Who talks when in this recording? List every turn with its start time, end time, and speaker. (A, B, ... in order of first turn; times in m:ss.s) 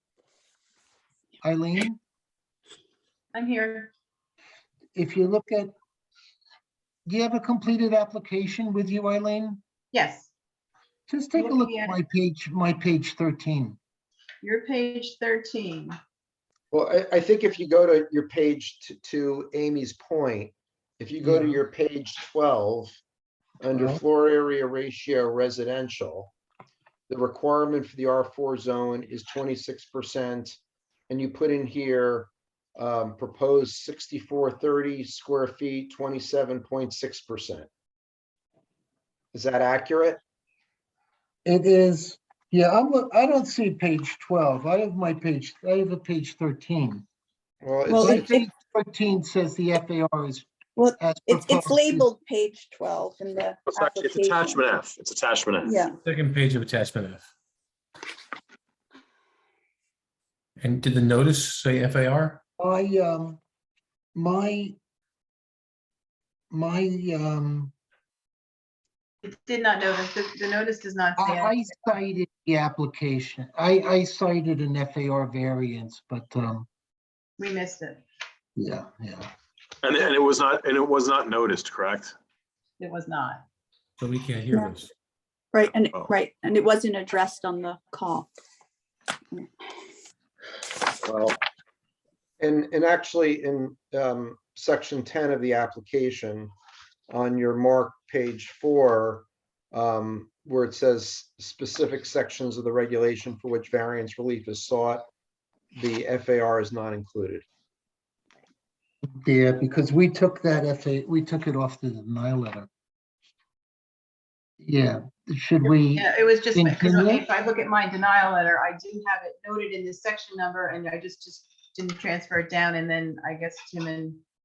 0:01.4-0:02.0 A
0:03.3-0:03.9 B
0:04.9-0:05.7 A
0:07.1-0:09.6 A
0:09.9-0:10.3 B
0:11.1-0:13.8 A
0:11.4-0:12.0 B
0:14.4-0:16.0 B
0:16.7-0:23.0 C
0:21.2-0:21.6 A
0:23.6-0:26.3 C
0:23.7-0:24.0 A
0:27.1-0:37.7 C
0:39.3-0:40.2 C
0:41.4-0:47.1 A
0:47.6-0:48.4 C
0:47.9-0:48.5 D
0:48.0-0:52.1 A
0:50.8-0:54.6 D
0:53.7-0:55.8 E
0:55.6-0:56.0 D
0:56.0-0:57.2 F
1:00.6-1:02.4 F
1:02.6-1:03.4 A
1:04.2-1:04.8 A
1:06.5-1:07.7 A
1:09.2-1:11.9 B
1:11.2-1:16.7 A
1:17.4-1:18.0 B
1:18.6-1:19.3 A
1:19.8-1:22.2 E
1:22.8-1:23.4 B
1:24.0-1:24.9 F
1:25.5-1:28.3 D
1:31.0-1:31.4 E
1:32.4-1:36.5 C
1:37.1-1:45.1 C
1:45.7-1:47.4 C
1:49.2-1:52.7 A
1:54.6-1:57.2 A
1:55.6-2:04.2 B